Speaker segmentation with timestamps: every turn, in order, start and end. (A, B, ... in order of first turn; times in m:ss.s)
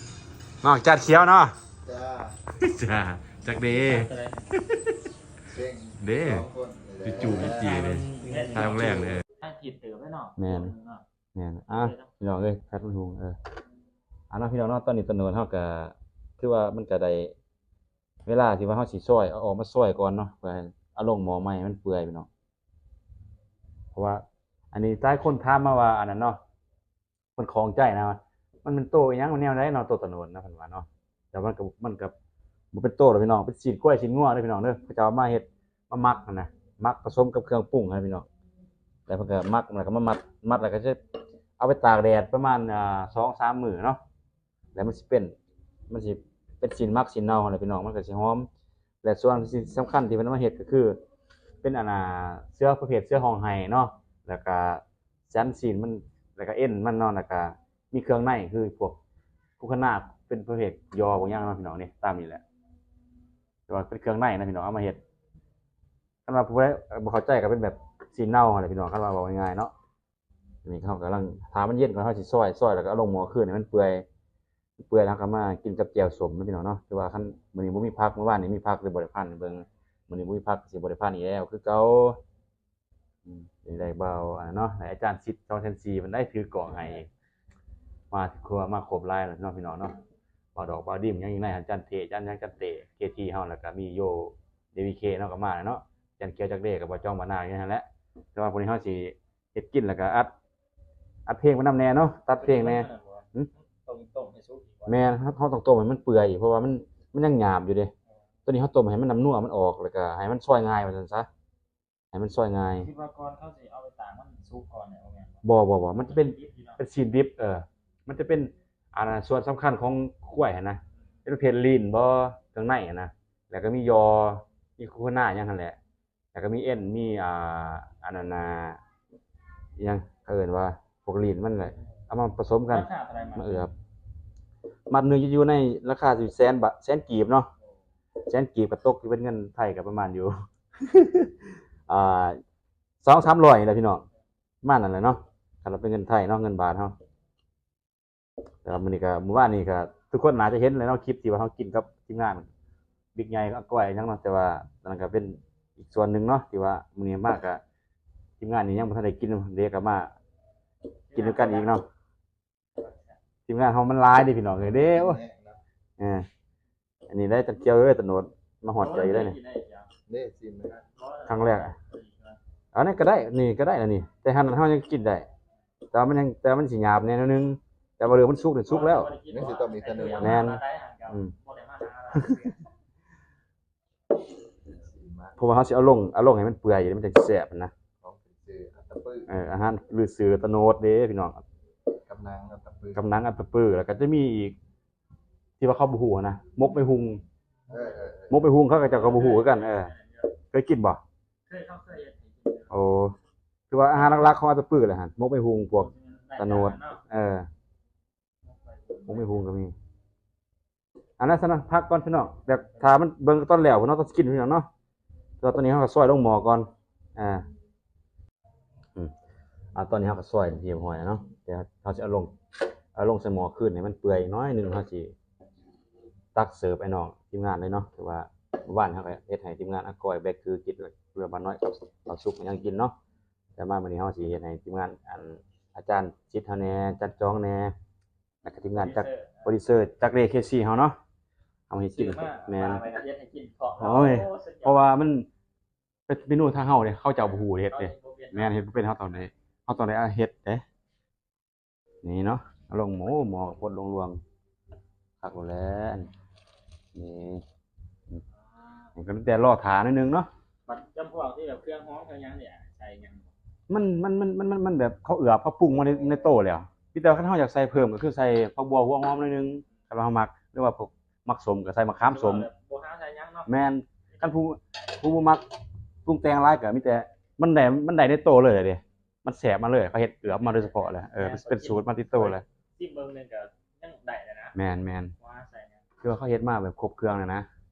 0:00.6-0:01.6 A
0:01.8-0:02.4 B
0:02.4-0:05.0 A
0:03.6-0:04.5 C
0:05.5-0:07.8 B
0:06.0-0:06.5 A
0:07.0-0:09.2 A
0:07.2-0:11.0 C
0:10.4-0:10.7 A
0:11.3-0:13.4 A
0:11.7-0:12.1 C
0:14.3-0:17.3 A
0:18.2-0:22.3 A
0:23.9-0:26.4 A
0:27.4-0:32.1 A
0:32.7-0:38.3 A
0:39.1-0:41.0 A
0:41.6-0:44.0 A
0:44.7-0:45.3 A
0:45.9-0:48.5 A
0:49.0-0:51.0 A
0:51.6-0:59.0 A
0:59.6-1:02.4 A
1:03.7-1:05.0 A
1:06.2-1:09.7 A
1:10.6-1:14.0 A
1:14.8-1:22.2 A
1:23.2-1:27.1 A
1:28.1-1:30.0 A
1:30.5-1:40.3 A
1:41.3-1:43.5 A
1:42.4-1:45.0 C
1:44.8-1:47.9 A
1:48.4-1:51.3 A
1:52.1-1:52.9 A
1:52.8-1:55.4 C
1:55.4-2:05.8 A
1:56.0-1:56.8 C
2:06.3-2:08.8 A
2:09.8-2:13.7 A
2:12.7-2:13.7 C
2:14.9-2:17.5 A
2:18.2-2:22.4 A
2:23.0-2:24.0 A
2:24.6-2:26.9 A
2:28.6-2:32.5 A
2:33.1-2:37.6 A
2:38.4-2:40.1 A
2:41.1-2:41.7 C
2:41.1-2:41.8 A
2:42.8-2:43.2 C
2:43.5-2:45.2 A
2:44.7-2:45.6 B
2:46.0-2:46.2 A
2:47.1-2:49.4 A
2:48.8-2:49.9 C
2:50.1-2:50.8 B
2:50.8-2:52.4 C
2:51.2-2:51.8 A
2:52.7-2:55.3 A
2:55.9-2:59.1 A
2:58.6-3:02.6 C
2:59.3-3:00.4 B
3:00.1-3:01.3 A
3:02.1-3:02.5 A
3:04.7-3:05.3 B
3:05.4-3:07.7 A
3:08.0-3:09.3 B
3:09.2-3:11.4 A
3:12.0-3:13.0 B
3:12.9-3:14.6 A
3:15.6-3:17.2 A
3:17.7-3:18.4 B
3:18.3-3:21.0 A
3:18.7-3:20.3 C
3:21.5-3:22.7 C
3:22.7-3:23.2 A
3:23.7-3:27.5 A
3:23.9-3:24.3 C
3:25.7-3:27.0 C
3:28.6-3:29.4 C
3:29.0-3:29.7 A
3:31.2-3:34.7 A
3:35.4-3:37.4 A
3:39.7-3:42.3 A
3:42.9-3:45.1 A
3:46.3-3:52.9 A
3:53.6-3:57.7 A
3:58.4-4:01.0 A
3:58.7-3:59.5 C
4:01.7-4:02.8 A
4:01.9-4:04.8 C
4:03.8-4:05.3 A
4:06.1-4:10.6 A
4:07.4-4:08.7 C
4:12.0-4:14.2 A
4:15.2-4:16.1 A
4:16.9-4:17.4 A
4:18.5-4:18.8 C
4:19.0-4:20.3 A
4:20.7-4:23.3 C
4:23.7-4:32.5 A
4:32.0-4:33.5 C
4:33.4-4:35.4 A
4:36.0-4:42.4 A
4:40.5-4:44.6 C
4:44.5-4:45.1 A
4:45.2-4:45.8 C
4:46.0-4:47.4 A